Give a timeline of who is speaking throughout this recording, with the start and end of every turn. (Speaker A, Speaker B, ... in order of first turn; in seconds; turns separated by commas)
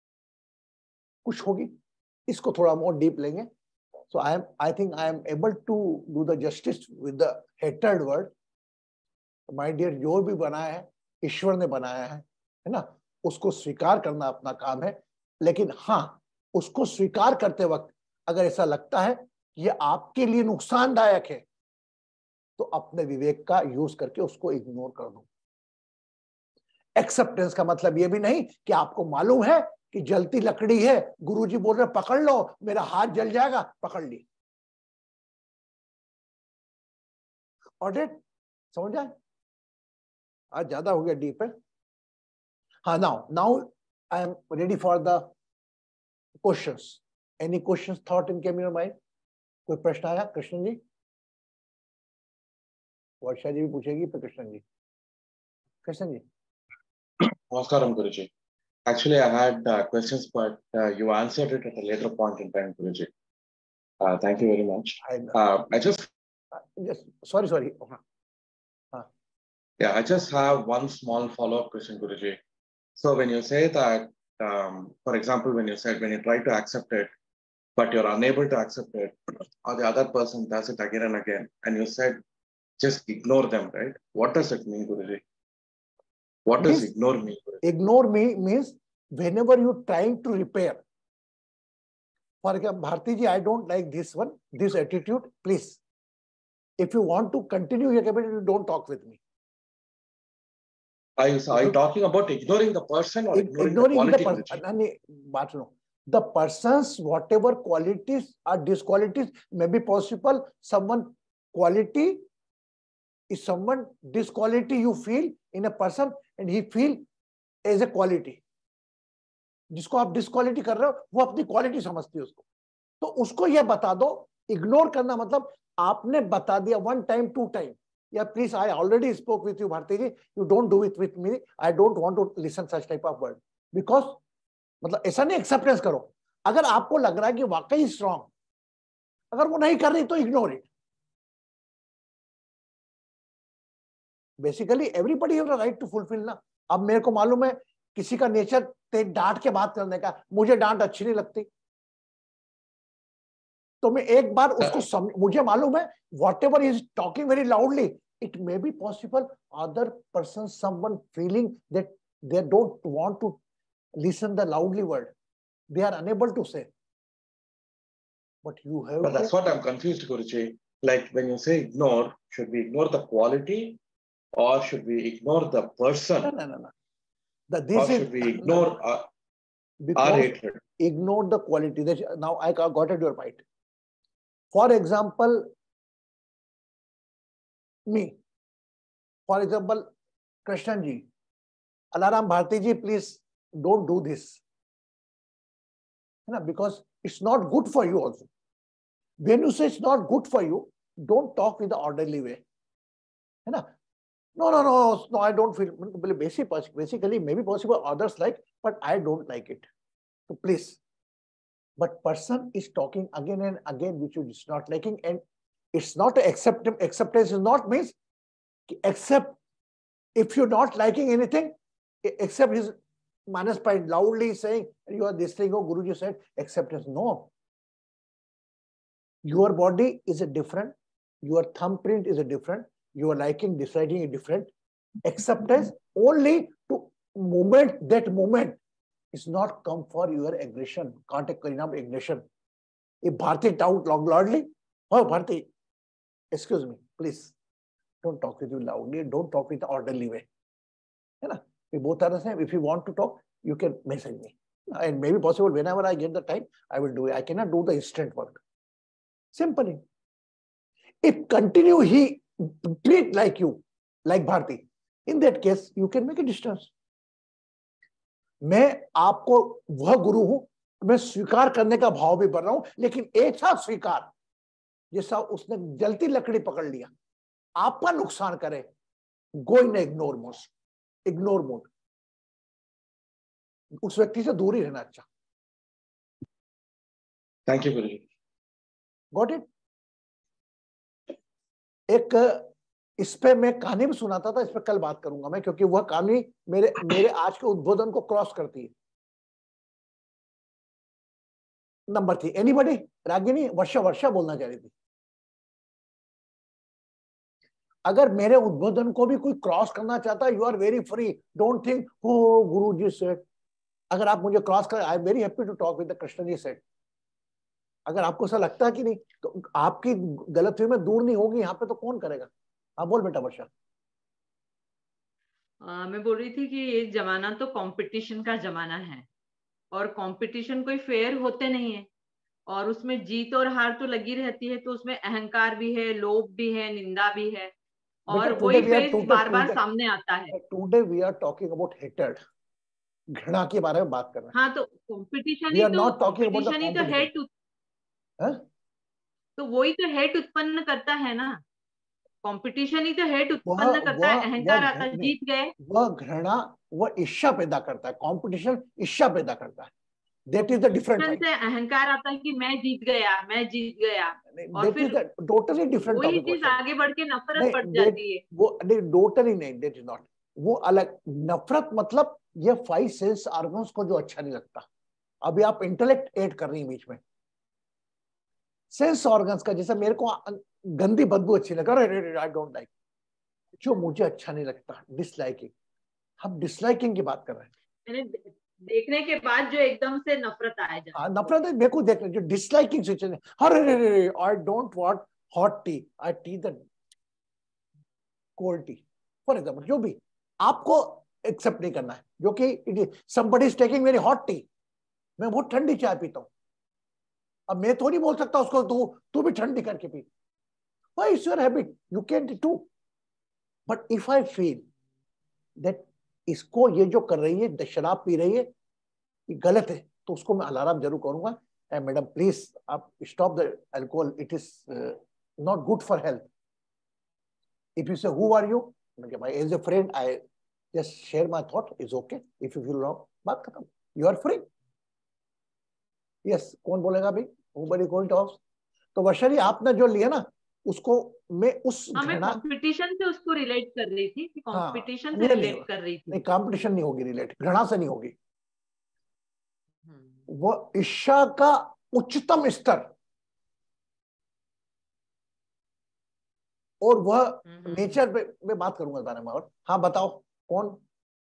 Speaker A: 1.2-1.7, Speaker A: 2.3-3.5, Speaker A: 4.1-8.3, Speaker A: 9.5-21.4, Speaker A: 22.6-25.2, Speaker A: 27.0-34.2, Speaker A: 37.8-38.2, Speaker A: 38.7-39.1, Speaker A: 40.5-41.5, Speaker A: 42.8-45.3, Speaker A: 46.4-48.9, Speaker A: 49.7-50.8, Speaker A: 53.2-54.6, Speaker A: 55.8-56.2, Speaker B: 57.5-58.3, Speaker B: 58.9-63.1, Speaker B: 64.0-66.1, Speaker A: 65.0-65.3, Speaker A: 66.5-68.0, Speaker B: 69.8-72.4, Speaker B: 73.0-77.1, Speaker B: 77.8-82.2, Speaker B: 82.8-85.2, Speaker B: 86.5-87.6, Speaker A: 86.6-86.9, Speaker A: 87.6-90.8, Speaker A: 92.4-95.8, Speaker A: 96.8-99.2, Speaker B: 101.2-104.6, Speaker A: 103.3-112.2, Speaker A: 113.3-117.0, Speaker A: 117.6-118.4, Speaker A: 119.7-122.4, Speaker A: 123.0-134.2, Speaker A: 134.8-138.3, Speaker A: 139.3-140.6, Speaker A: 144.4-151.5, Speaker A: 153.8-163.4, Speaker A: 164.0-165.1, Speaker A: 165.7-166.7, Speaker A: 168.4-169.3, Speaker B: 169.0-173.8, Speaker B: 174.4-176.3, Speaker A: 176.2-176.7, Speaker A: 177.5-178.8, Speaker B: 177.7-179.1, Speaker A: 179.8-183.4, Speaker B: 179.9-180.6, Speaker A: 184.5-185.5, Speaker A: 187.9-188.1, Speaker A: 189.3-189.9, Speaker A: 190.4-191.1, Speaker A: 191.9-194.4, Speaker A: 196.3-198.3, Speaker A: 199.2-202.4, Speaker A: 204.4-209.7, Speaker A: 210.3-210.8, Speaker A: 211.8-215.2, Speaker A: 215.7-217.9, Speaker A: 218.7-219.4, Speaker A: 220.2-222.7, Speaker A: 223.3-227.3, Speaker A: 229.2-234.5, Speaker A: 235.0-238.6, Speaker A: 239.1-242.2, Speaker A: 243.0-245.4, Speaker A: 246.3-247.3, Speaker A: 248.0-250.2, Speaker A: 251.2-258.4, Speaker A: 259.3-259.8, Speaker A: 261.0-266.7, Speaker A: 268.4-274.1, Speaker A: 274.9-276.9, Speaker A: 277.6-278.7, Speaker A: 279.4-280.5, Speaker A: 281.1-281.7, Speaker A: 283.8-285.1, Speaker B: 287.5-288.1, Speaker A: 289.1-289.4, Speaker A: 291.9-298.7, Speaker A: 301.9-304.7, Speaker A: 307.9-313.2, Speaker A: 313.9-316.6, Speaker A: 317.9-323.5, Speaker C: 325.6-329.1, Speaker C: 329.7-331.9, Speaker C: 332.5-337.5, Speaker C: 338.1-340.3, Speaker A: 338.1-339.6, Speaker A: 340.3-342.2, Speaker A: 343.1-344.3, Speaker C: 344.3-347.3, Speaker A: 345.5-347.1, Speaker C: 349.4-351.4, Speaker C: 352.2-355.5, Speaker A: 353.4-359.7, Speaker A: 360.3-361.2, Speaker C: 360.5-365.0, Speaker A: 364.3-366.6, Speaker C: 365.9-368.2, Speaker A: 367.4-374.6, Speaker A: 375.2-377.0, Speaker A: 378.7-382.7, Speaker A: 383.6-385.5, Speaker A: 386.2-387.5, Speaker C: 387.9-391.3, Speaker A: 390.9-396.6, Speaker A: 398.4-404.4, Speaker A: 405.2-406.3, Speaker A: 407.5-410.1, Speaker A: 411.0-412.7, Speaker A: 413.7-414.6, Speaker A: 415.6-418.5, Speaker A: 419.3-426.2, Speaker A: 427.8-430.2, Speaker A: 430.7-434.5, Speaker A: 436.2-438.4, Speaker A: 438.9-442.4, Speaker C: 441.9-446.2, Speaker A: 444.5-448.1, Speaker A: 450.3-452.9, Speaker A: 456.8-460.8, Speaker C: 457.5-458.0